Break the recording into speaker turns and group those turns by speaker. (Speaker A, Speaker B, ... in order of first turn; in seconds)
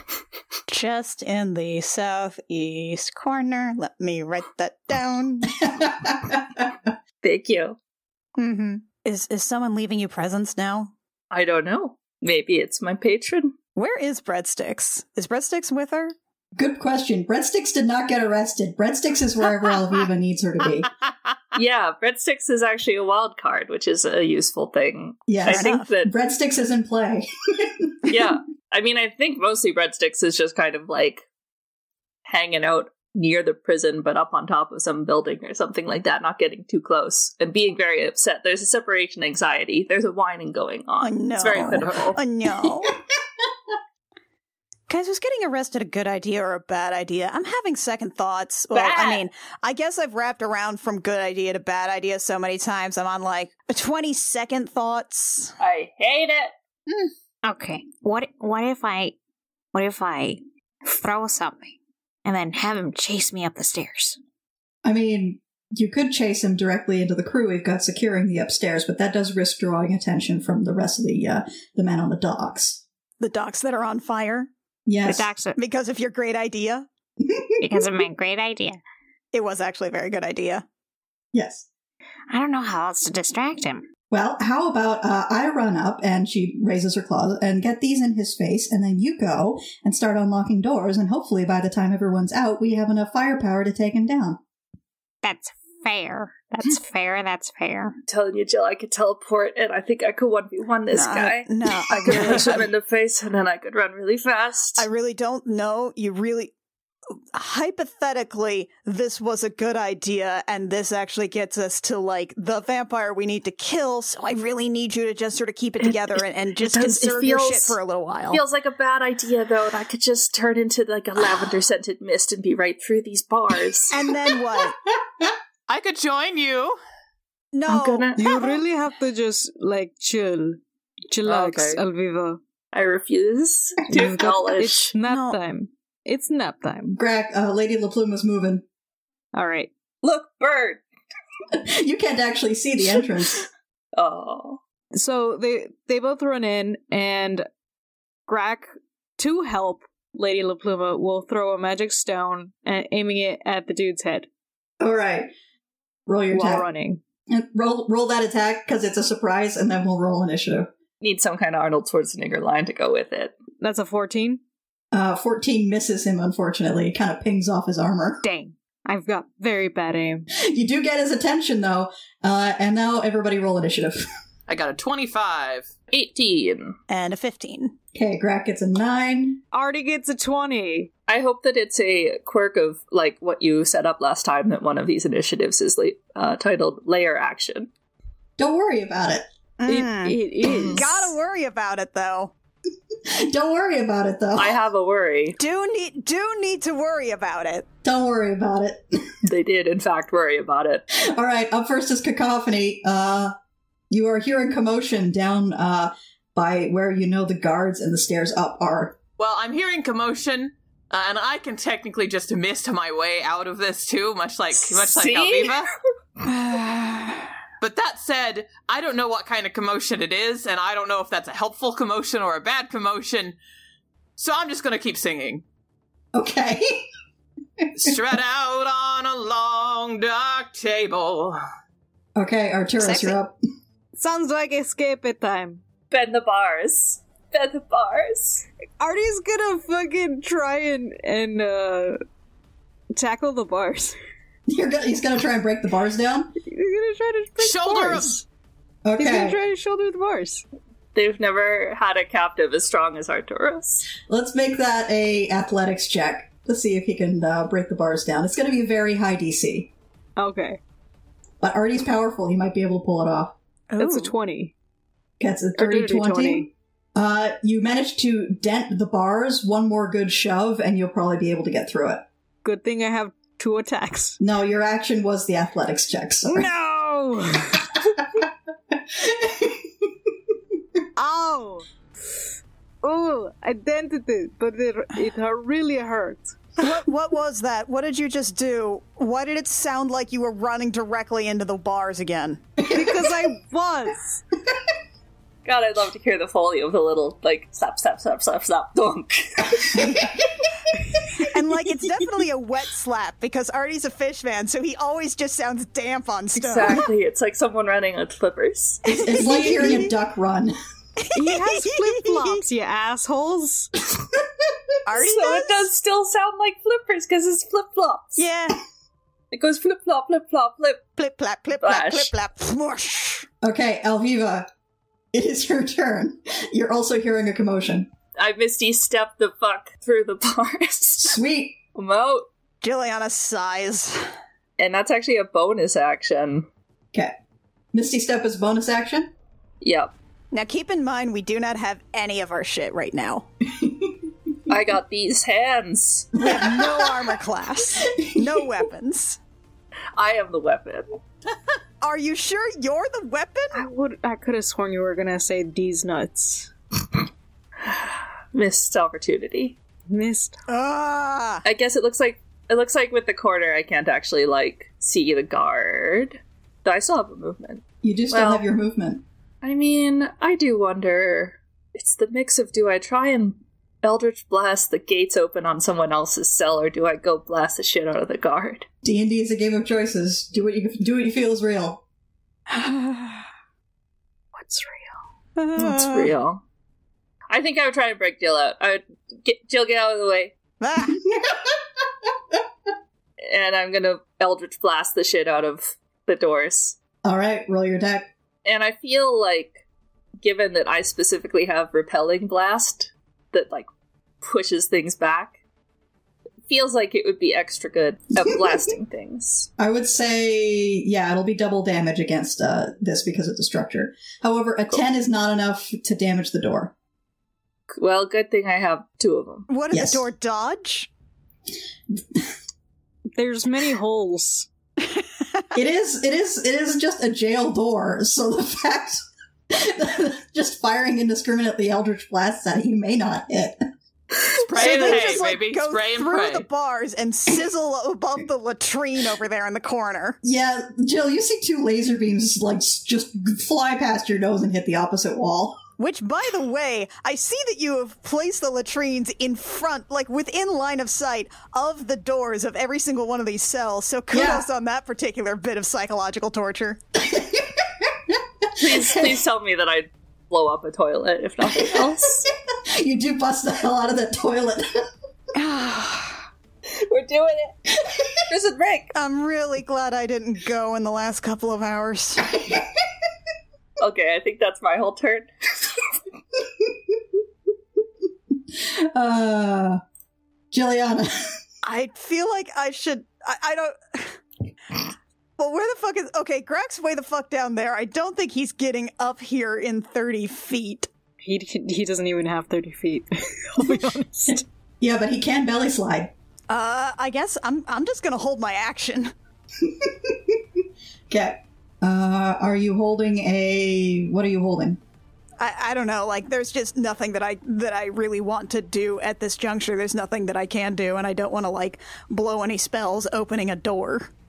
Speaker A: 0.7-5.6, 8.4-10.9, 13.8-16.1, 25.5-25.8, 41.0-42.9, 44.9-55.5, 73.2-74.5, 75.6-76.9, 79.3-80.6, 100.9-102.7, 104.8-106.5, 107.3-118.4, 123.9-124.8, 127.5-128.2, 135.0-135.4, 176.9-177.8, 189.6-192.3, 195.4-197.7, 216.2-217.3, 263.7-264.1, 286.6-292.6, 301.3-306.9, 308.9-309.9, 311.0-312.4, 314.9-315.6, 318.2-318.6, 321.0-323.3, 332.6-334.1, 340.3-343.3, 346.1-349.2, 351.8-353.6, 360.5-361.4, 382.5-383.2, 385.4-386.1, 390.6-391.0, 419.5-420.9, 424.8-425.4, 434.3-440.2, 445.8-456.8, 465.3-466.2, 468.9-472.4, 481.6-484.2, 484.7-490.9, 496.5-499.1, 505.4-514.1
Speaker B: 5.6-6.7, 16.6-20.9, 25.3-28.1, 64.8-72.8, 74.8-75.3, 77.3-77.8, 81.3-81.7, 84.1-94.4, 136.9-138.6, 141.5-143.4, 154.8-155.3, 156.1-156.7, 157.3-160.7, 164.9-168.2, 170.3-174.0, 177.9-179.4, 188.4-189.2, 193.0-194.6, 197.8-198.8, 200.9-203.3, 203.9-209.0, 226.1-226.8, 227.6-227.9, 232.2-233.4, 244.5-246.3, 248.8-249.4, 254.1-259.7, 261.4-263.4, 265.2-272.1, 274.2-276.5, 278.0-279.7, 299.7-300.5, 308.9-310.5, 323.4-324.5, 325.1-327.9, 331.0-331.6, 337.7-339.1, 343.6-343.9, 346.2-346.9, 347.9-348.5, 367.8-369.0, 378.8-381.8, 391.1-391.6, 397.0-398.1, 409.6-416.7, 419.7-420.1, 425.5-433.6, 440.2-445.6, 454.1-454.5, 457.0-459.2, 461.5-461.9, 462.5-464.6, 478.5-479.8, 480.5-481.2, 494.3-496.1, 499.6-500.4, 501.1-504.8
Speaker C: 7.2-7.8, 11.3-13.5, 21.5-26.1, 28.1-31.2, 32.2-42.2, 48.7-49.2, 55.6-56.5, 98.1-104.8, 115.8-117.8, 118.3-123.9, 127.7-128.2, 131.3-131.8, 132.7-134.9, 140.0-140.8, 143.9-144.6, 161.0-163.3, 175.9-176.8, 181.1-187.7, 194.3-195.4, 199.2-200.8, 214.6-215.7, 235.9-238.4, 250.9-253.9, 295.4-300.0, 306.4-308.9, 314.9-318.2, 319.3-320.8, 321.5-322.1, 328.2-331.2, 331.8-332.3, 334.6-336.5, 339.6-339.9, 344.5-346.1, 349.9-350.9, 357.6-359.6, 361.4-368.4, 369.4-378.7, 385.6-386.4, 387.3-390.4, 393.2-396.8, 398.4-399.6, 400.2-403.7, 404.2-405.4, 406.5-409.5, 417.7-419.5, 458.5-462.3, 466.7-467.6, 468.2-468.9, 473.8-475.3
Speaker D: 57.4-59.1, 59.7-64.2, 75.1-75.6, 77.6-78.8, 82.3-83.8, 95.2-98.0
Speaker E: 125.7-126.8, 131.2-131.8, 174.5-175.7, 209.2-215.7, 217.6-223.4, 224.2-225.4, 227.8-231.4, 247.4-248.2, 434.5-436.4
Speaker F: 128.2-132.4, 133.9-137.0, 139.3-139.7, 144.9-147.4, 148.3-154.3, 156.3-157.0, 163.6-164.4, 168.2-170.3, 179.5-180.9, 189.7-191.1, 233.9-235.6, 238.8-242.0, 242.9-243.9, 246.4-248.2, 249.0-250.4, 260.2-260.6, 263.8-264.5, 265.6-266.5, 272.4-274.2, 276.3-277.7, 280.9-281.6, 282.8-286.5, 292.6-294.2, 311.1-313.7, 353.5-356.5, 359.9-360.4, 384.4-385.0, 423.1-424.5, 491.2-494.4